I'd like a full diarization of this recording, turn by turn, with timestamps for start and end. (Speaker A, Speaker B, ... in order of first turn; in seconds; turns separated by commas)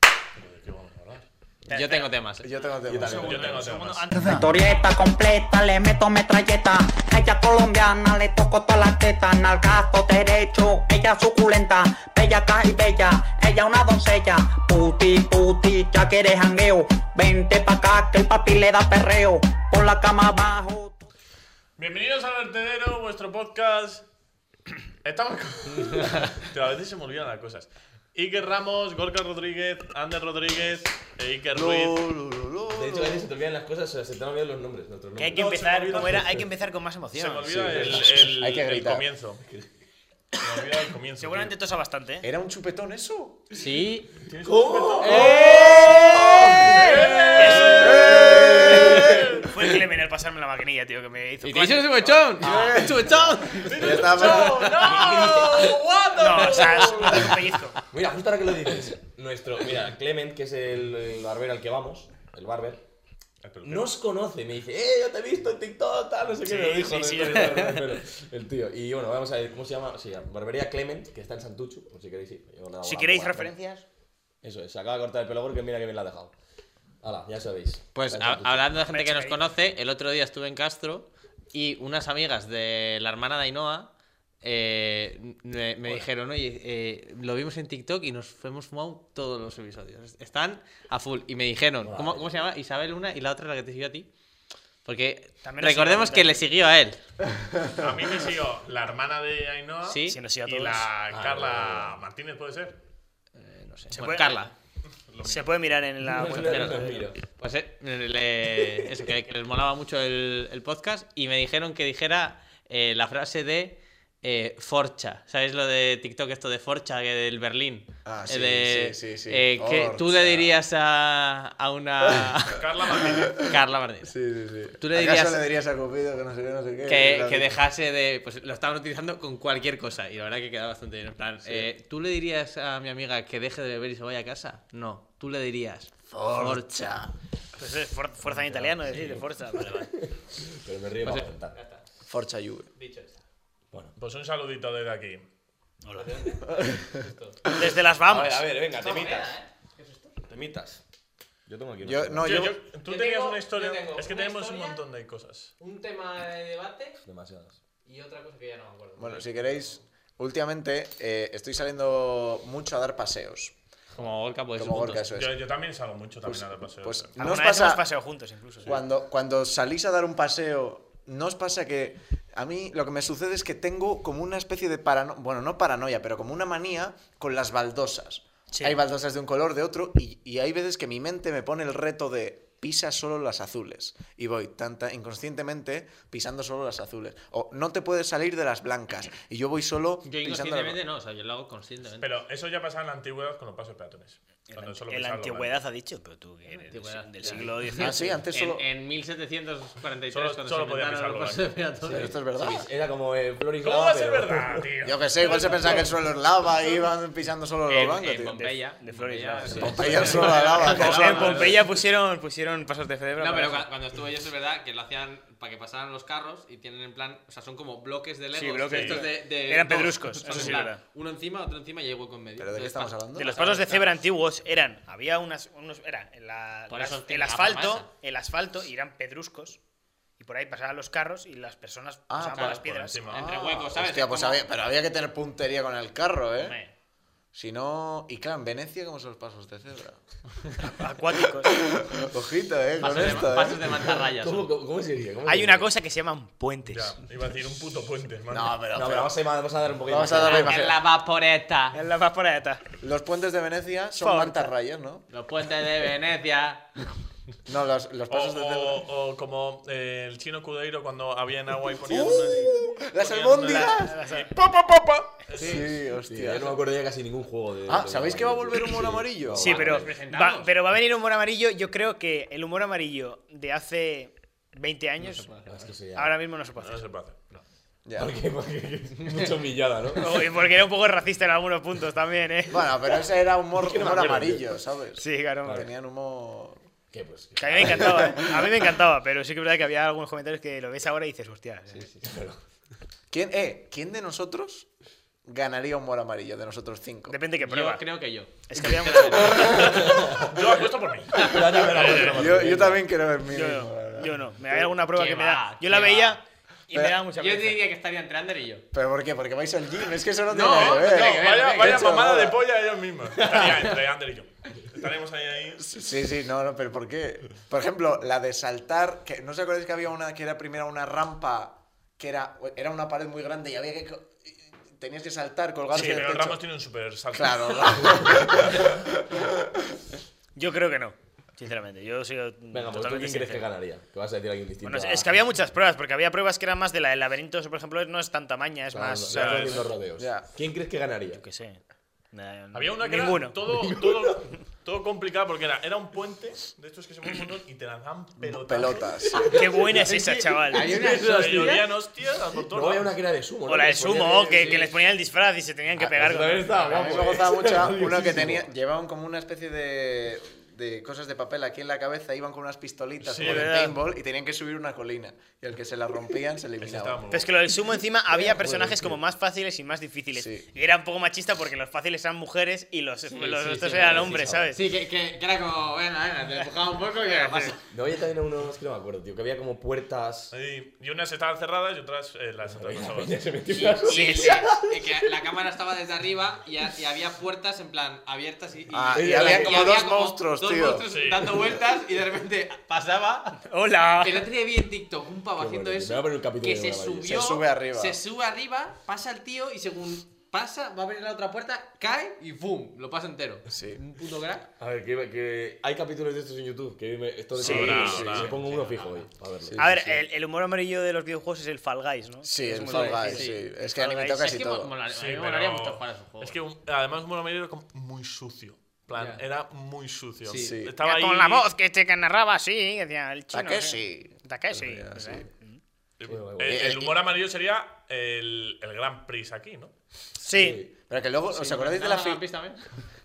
Speaker A: 0.4-1.3, Speaker B: 1.7-2.1, Speaker C: 1.7-2.5, Speaker D: 2.4-3.7, Speaker E: 2.8-3.7, Speaker B: 3.0-4.6, Speaker A: 3.2-4.1, Speaker F: 4.2-21.1, Speaker A: 21.8-24.1, Speaker A: 25.0-32.0, Speaker C: 25.8-26.4, Speaker D: 31.5-33.3, Speaker E: 32.7-35.4, Speaker B: 35.2-37.6, Speaker A: 35.3-36.3, Speaker E: 36.1-36.4, Speaker A: 37.1-39.4, Speaker E: 37.5-38.4, Speaker D: 37.7-39.0, Speaker A: 40.3-41.5, Speaker B: 41.2-42.2, Speaker D: 42.2-43.4, Speaker C: 43.5-44.1, Speaker A: 44.2-45.7, Speaker E: 44.4-49.4, Speaker C: 45.0-46.2, Speaker B: 45.2-52.1, Speaker A: 46.4-49.5, Speaker D: 47.8-49.1, Speaker C: 51.4-55.1, Speaker D: 52.4-54.7, Speaker E: 52.5-52.8, Speaker A: 53.6-57.6, Speaker E: 53.7-55.8, Speaker B: 56.1-57.8, Speaker E: 57.9-62.8, Speaker A: 63.4-63.9, Speaker E: 63.6-73.5, Speaker B: 66.4-67.9, Speaker B: 72.8-73.8, Speaker E: 74.4-76.3, Speaker E: 77.0-78.7, Speaker C: 77.9-83.9, Speaker B: 78.9-79.5, Speaker C: 84.4-94.1, Speaker E: 91.8-92.4, Speaker C: 94.8-97.0, Speaker B: 95.4-96.4, Speaker A: 97.8-102.8, Speaker C: 99.8-100.2, Speaker B: 100.1-100.9, Speaker E: 101.1-102.0, Speaker C: 103.3-104.5, Speaker B: 103.9-104.5, Speaker A: 105.1-105.5, Speaker B: 105.2-107.1, Speaker E: 106.0-107.2, Speaker C: 107.2-124.1, Speaker D: 118.0-120.5, Speaker A: 122.5-123.5, Speaker D: 123.0-127.5, Speaker C: 124.8-125.5, Speaker C: 126.8-136.7, Speaker D: 136.1-137.1, Speaker B: 137.6-140.0, Speaker E: 138.3-141.6, Speaker C: 141.0-141.9, Speaker D: 142.1-142.7, Speaker C: 142.7-143.2, Speaker A: 143.9-145.2, Speaker B: 145.8-146.4, Speaker C: 145.9-147.4, Speaker B: 147.5-148.4, Speaker E: 148.1-149.3, Speaker C: 148.7-150.2, Speaker E: 150.2-150.8, Speaker E: 151.5-152.4, Speaker D: 151.8-152.6, Speaker A: 152.2-155.5, Speaker C: 152.8-154.8, Speaker C: 155.6-157.0, Speaker E: 157.0-157.6, Speaker C: 157.8-159.8, Speaker D: 159.0-163.5, Speaker C: 163.9-165.1, Speaker D: 164.5-165.4, Speaker A: 165.1-167.2, Speaker D: 166.2-167.8, Speaker B: 167.2-168.8, Speaker D: 168.7-190.8, Speaker B: 178.5-178.8, Speaker C: 190.0-192.2, Speaker A: 192.0-195.6, Speaker B: 194.5-198.2, Speaker C: 196.7-202.1, Speaker D: 197.8-198.6, Speaker A: 200.1-201.5, Speaker E: 201.8-204.7, Speaker D: 201.9-202.6, Speaker A: 203.6-205.8, Speaker D: 204.8-208.4, Speaker C: 207.7-211.5, Speaker B: 208.3-213.7, Speaker D: 209.6-211.5, Speaker A: 210.6-211.6, Speaker C: 213.2-223.9, Speaker B: 218.3-220.8, Speaker A: 218.7-219.0, Speaker A: 220.3-220.6, Speaker D: 222.4-223.4, Speaker B: 223.1-229.6, Speaker C: 226.7-227.9, Speaker B: 230.2-233.2, Speaker D: 232.1-236.6, Speaker A: 232.3-233.3, Speaker C: 233.1-234.4, Speaker C: 236.4-236.7, Speaker D: 237.3-240.0, Speaker B: 240.7-241.6, Speaker D: 241.1-244.0, Speaker C: 242.8-244.5, Speaker E: 244.2-245.7, Speaker B: 245.2-247.0, Speaker A: 246.7-248.6, Speaker D: 248.3-249.1, Speaker E: 248.7-250.5, Speaker D: 249.8-250.8, Speaker C: 250.2-251.8, Speaker B: 251.7-252.6, Speaker D: 252.8-255.1, Speaker B: 253.9-254.5, Speaker C: 255.1-256.7, Speaker D: 257.4-258.8, Speaker A: 258.1-265.8, Speaker D: 261.9-264.0, Speaker B: 263.7-264.3, Speaker D: 265.3-266.6, Speaker E: 266.1-269.9, Speaker D: 267.6-269.5, Speaker B: 269.4-275.3, Speaker C: 269.4-270.5, Speaker C: 275.0-275.7, Speaker E: 275.5-276.1, Speaker B: 275.9-276.9, Speaker A: 276.6-277.2, Speaker D: 277.8-278.1, Speaker E: 278.0-280.3, Speaker B: 279.9-282.8, Speaker D: 282.5-286.6, Speaker E: 283.5-284.5, Speaker B: 285.0-285.7, Speaker E: 286.9-288.4, Speaker B: 287.4-291.9, Speaker E: 291.8-292.4, Speaker D: 293.1-294.7, Speaker D: 295.2-297.2, Speaker B: 297.1-297.8, Speaker C: 297.4-299.8, Speaker B: 298.5-299.6, Speaker A: 299.3-302.3, Speaker E: 299.4-300.4, Speaker E: 301.1-302.9, Speaker D: 301.2-304.1, Speaker B: 303.3-307.6, Speaker C: 304.9-306.2, Speaker C: 307.1-308.6, Speaker D: 308.7-312.4, Speaker C: 310.3-312.0, Speaker A: 310.4-315.7, Speaker E: 313.1-313.7, Speaker D: 315.6-326.4, Speaker A: 325.7-328.7, Speaker D: 327.1-329.3, Speaker B: 330.4-333.4, Speaker E: 332.5-335.1, Speaker B: 334.6-339.7, Speaker E: 338.7-341.2, Speaker A: 339.1-339.7, Speaker D: 340.0-340.3, Speaker B: 341.1-341.6, Speaker B: 342.1-343.4, Speaker A: 342.5-348.9, Speaker E: 343.6-344.2, Speaker D: 348.2-349.4, Speaker E: 349.0-351.6, Speaker B: 349.2-350.8, Speaker C: 350.5-351.7, Speaker A: 351.0-352.9, Speaker E: 352.4-354.7, Speaker B: 353.4-356.7, Speaker E: 355.8-358.5, Speaker D: 356.6-367.0, Speaker A: 363.0-363.6, Speaker B: 363.2-363.8, Speaker A: 366.6-367.4, Speaker B: 367.1-374.6, Speaker E: 368.3-369.0, Speaker D: 370.1-370.5, Speaker C: 373.1-377.6, Speaker E: 373.8-374.5, Speaker B: 377.0-377.5, Speaker E: 377.7-380.3, Speaker A: 380.3-383.2, Speaker E: 382.5-385.0, Speaker C: 383.5-404.5, Speaker B: 383.8-384.5, Speaker D: 388.7-390.9, Speaker E: 388.9-389.8, Speaker A: 390.8-391.4, Speaker B: 393.4-394.3, Speaker E: 395.4-397.1, Speaker D: 397.0-398.0, Speaker D: 403.5-403.8, Speaker E: 404.6-410.0, Speaker A: 407.4-408.4, Speaker B: 407.4-407.9, Speaker D: 407.4-408.3, Speaker C: 408.1-409.1, Speaker D: 409.5-409.8, Speaker B: 409.6-414.3, Speaker D: 412.2-414.7, Speaker C: 412.7-413.5, Speaker C: 414.1-416.4, Speaker A: 414.9-421.5, Speaker C: 418.9-419.2, Speaker C: 420.2-420.6, Speaker D: 420.4-420.8, Speaker B: 420.8-425.6, Speaker D: 423.3-425.3, Speaker A: 426.0-429.7, Speaker E: 426.1-426.7, Speaker D: 426.4-426.9, Speaker B: 430.2-430.7, Speaker E: 430.3-430.7, Speaker D: 430.8-432.2, Speaker C: 431.3-432.6